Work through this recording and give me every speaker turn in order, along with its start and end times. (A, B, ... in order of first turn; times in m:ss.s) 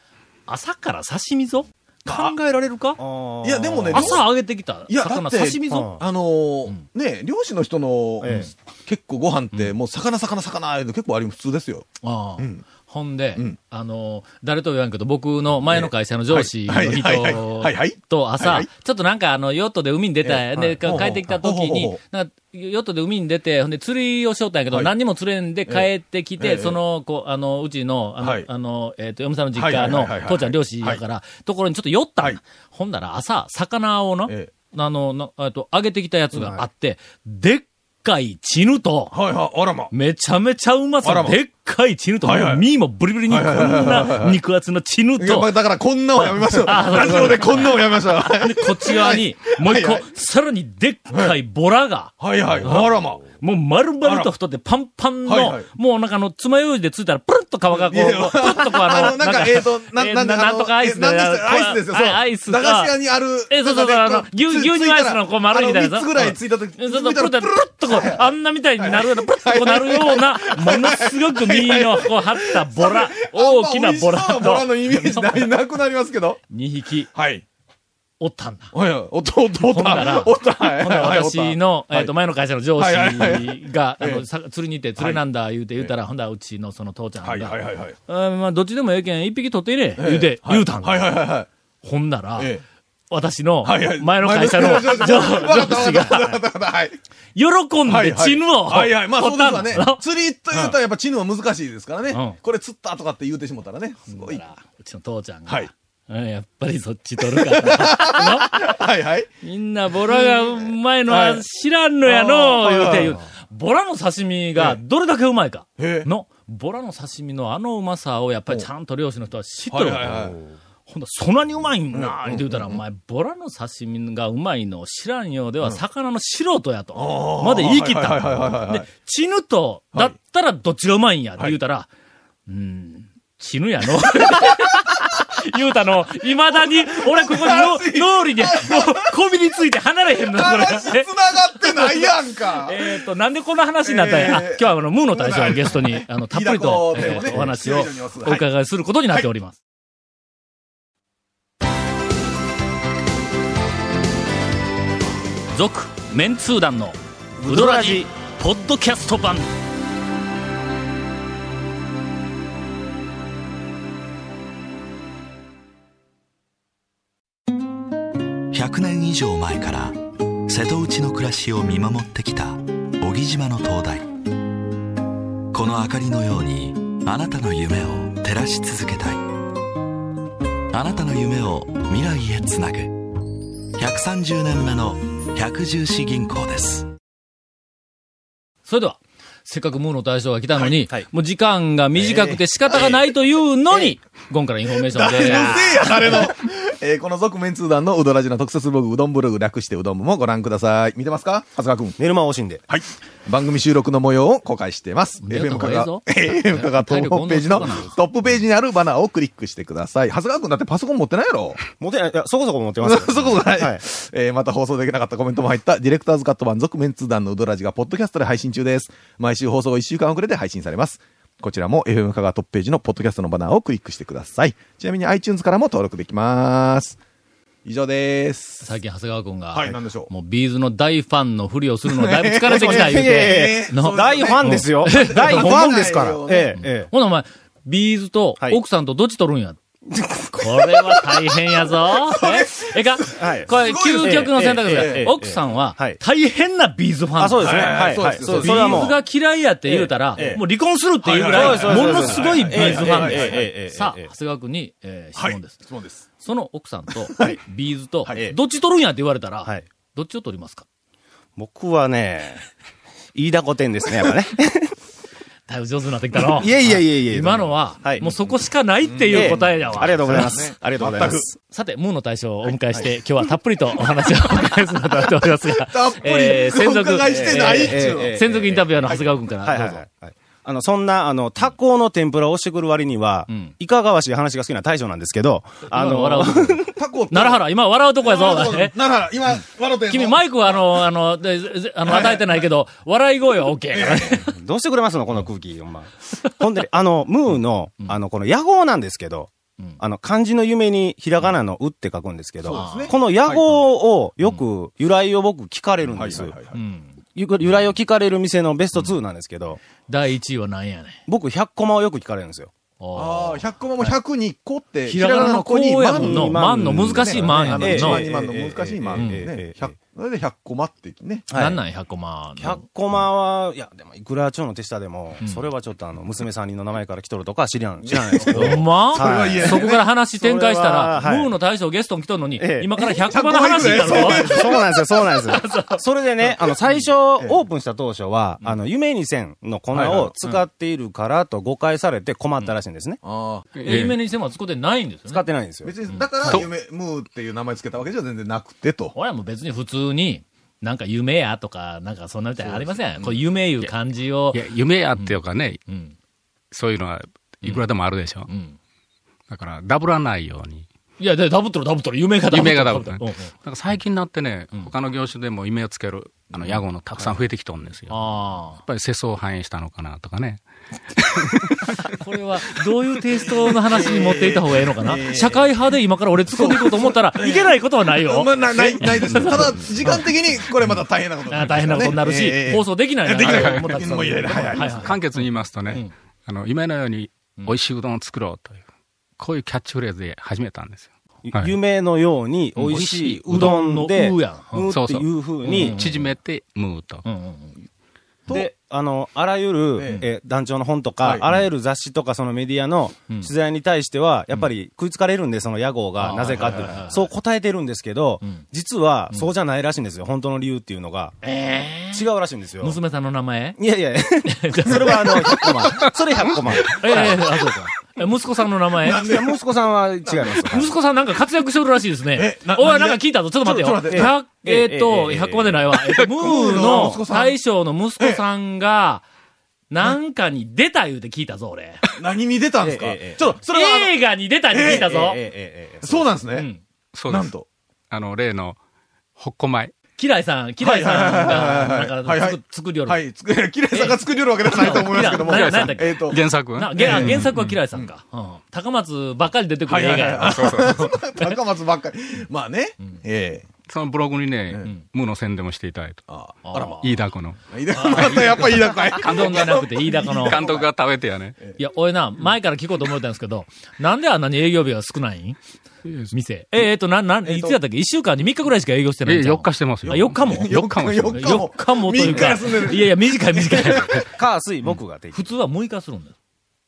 0:00.5-0:03.0 A
0:02.0-0:02.3 B
0:03.0-0:04.2 C
0:03.4-0:04.3 B
0:03.9-0:05.9 A
0:04.9-0:11.9 B
0:05.7-0:06.0 C
0:08.2-0:08.5 C
0:08.2-0:08.5 A
0:12.0-0:39.2 A
0:12.4-0:12.6 B
0:15.7-0:18.7 B
0:20.2-0:22.0 B
0:26.4-0:26.8 B
0:28.2-0:28.5 B
0:29.5-0:31.0 B
0:36.4-0:36.6 C
0:39.1-0:39.9 B
0:39.9-0:45.5 A
0:41.0-0:41.4 B
0:42.2-0:42.6 B
0:43.3-0:44.4 B
0:45.2-0:50.0 B
0:46.2-1:03.0 A
0:52.2-0:53.2 B
0:54.0-0:54.3 B
0:55.2-0:55.7 B
0:57.7-1:08.3 B
1:03.5-1:15.5 A
1:08.8-1:16.4 B
1:16.5-1:17.1 A
1:17.1-1:17.4 B
1:18.2-1:18.7 A
1:18.7-1:22.1 B
1:19.6-1:31.2 A
1:22.8-1:24.2 B
1:27.2-1:28.0 B
1:30.0-1:31.5 B
1:31.8-1:32.5 A
1:32.4-1:32.6 B
1:33.1-1:36.4 A
1:33.6-1:37.0 B
1:37.3-1:40.8 A
1:37.8-1:44.4 B
1:42.1-1:42.4 A
1:44.1-1:48.8 A
1:47.3-1:49.3 B
1:49.4-2:11.9 A
1:50.0-1:51.4 B
1:52.0-1:53.2 B
1:55.8-1:56.1 B
1:59.7-2:00.4 B
2:01.9-2:02.8 B
2:06.9-2:08.9 B
2:12.4-2:29.6 A
2:16.5-2:19.1 B
2:20.3-2:23.0 B
2:23.8-2:28.4 B
2:27.0-2:27.5 C
2:35.5-2:39.5 A
2:37.4-2:38.0 C
2:48.5-2:54.1 D
2:55.5-2:59.2 D
3:00.7-3:03.1 D
3:03.8-3:06.9 D
3:08.6-3:16.3 A
3:11.9-3:12.4 C
3:14.8-3:22.0 B
3:22.0-3:22.6 C
3:22.7-3:31.6 B
3:25.2-3:28.0 A
3:31.7-3:33.8 C
3:32.8-3:47.0 B
3:47.6-3:48.7 B
3:48.6-3:59.6 A
3:49.5-3:50.1 B
3:51.9-3:56.6 B
3:52.5-3:56.9 C
4:00.0-4:01.0 C
4:00.3-4:15.6 A
4:02.1-4:02.8 B
4:03.2-4:06.0 C
4:03.5-4:05.1 B
4:07.2-4:09.0 C
4:07.4-4:08.9 B
4:09.7-4:10.4 C
4:11.0-4:13.4 B
4:11.2-4:14.1 C
4:15.2-4:16.0 B
4:16.2-4:20.6 A
4:21.4-4:22.5 C
4:23.1-4:24.8 C
4:25.5-4:30.5 A
4:26.1-4:28.2 C
4:28.8-4:31.3 B
4:29.1-4:31.4 C
4:31.5-4:39.8 A
4:35.6-4:38.2 B
4:37.0-4:38.9 C
4:39.4-4:46.7 C
4:45.7-4:48.8 A
4:46.7-4:47.4 B
4:48.0-4:50.8 B
4:49.8-4:54.3 A
4:51.8-4:52.4 B
4:53.7-4:54.2 B
4:53.8-5:06.4 C
5:02.4-5:03.4 B
5:02.5-5:02.9 A
5:05.9-5:06.6 B
5:06.5-5:07.0 A
5:07.1-5:09.6 C
5:09.9-5:11.0 A
5:11.1-5:12.5 C
5:12.8-5:13.9 A
5:12.9-5:21.3 B
5:14.9-5:18.1 A
5:15.0-5:19.7 C
5:18.9-5:19.3 A
5:21.3-5:21.6 C
5:21.3-5:22.6 A
5:22.4-5:29.6 C
5:25.2-5:25.5 A
5:27.8-5:29.8 B
5:28.2-5:35.8 A
5:30.2-5:31.3 C
5:32.4-5:32.7 C
5:32.9-5:34.6 B
5:33.7-5:43.0 C
5:37.2-5:37.4 B
5:39.7-5:40.1 B
5:43.0-5:43.4 B
5:43.6-5:44.0 E
5:43.6-5:45.2 A
5:45.1-5:45.8 C
5:45.6-5:48.9 B
5:45.9-5:46.4 A
5:46.2-5:46.5 E
5:48.9-5:54.4 A
5:52.4-5:52.7 C
5:54.3-5:55.6 E
5:54.9-5:56.0 A
5:56.5-5:58.3 E
5:58.3-5:58.6 A
5:59.3-6:00.7 E
6:01.0-6:03.3 A
6:02.3-6:08.0 E
6:07.9-6:08.6 A
6:08.6-6:10.4 E
6:11.0-6:11.6 E
6:11.9-6:20.0 A
6:13.1-6:15.6 B
6:16.3-6:25.0 B
6:21.3-6:25.9 A
6:23.2-6:28.6 E
6:29.2-6:31.5 E
6:31.2-6:35.8 C
6:32.6-6:33.6 E
6:32.6-6:34.8 A
6:34.6-6:37.0 E
6:35.4-6:36.1 A
6:37.0-6:37.6 A
6:38.3-6:51.2 C
6:39.8-6:40.0 B
6:39.8-6:40.1 A
6:41.0-6:41.4 B
6:46.0-6:47.1 A
6:46.3-6:46.7 B
6:51.2-6:52.1 A
6:51.9-6:52.8 C
6:52.6-6:53.6 A
6:53.6-6:57.3 C
6:54.2-6:55.7 A
6:56.8-6:59.2 A
6:58.8-6:59.4 B
6:59.0-7:00.7 C
7:00.0-7:00.6 B
7:00.4-7:09.0 A
7:02.1-7:04.1 B
7:03.9-7:05.8 C
7:06.2-7:07.4 B
7:06.3-7:07.0 C
7:09.7-7:11.8 A
7:12.0-7:14.0 B
7:12.6-7:13.2 C
7:13.5-7:15.2 A
7:14.5-7:14.9 B
7:14.7-7:16.1 C
7:15.8-7:16.5 B
7:16.3-7:16.6 A
7:16.9-7:17.3 E
7:17.1-7:17.5 B
7:17.9-7:18.6 E
7:19.2-7:19.7 E
7:20.0-7:23.0 A
7:20.6-7:26.2 B
7:23.7-7:31.3 A
7:24.6-7:27.6 E
7:26.8-7:27.9 B
7:29.7-7:33.4 B
7:30.2-7:31.0 E
7:33.7-7:36.0 E
7:36.1-7:40.7 B
7:36.4-7:36.9 A
7:36.5-7:37.4 E
7:37.7-7:40.4 A
7:37.9-7:38.2 E
7:40.2-7:41.4 E
7:41.6-7:45.4 A
7:45.8-7:46.1 E
7:46.1-7:50.6 A
7:47.2-7:47.6 B
7:49.0-7:51.5 E
7:49.8-7:54.0 B
7:51.1-7:54.1 A
7:52.1-7:52.4 E
7:54.0-7:55.3 C
7:55.1-7:56.1 A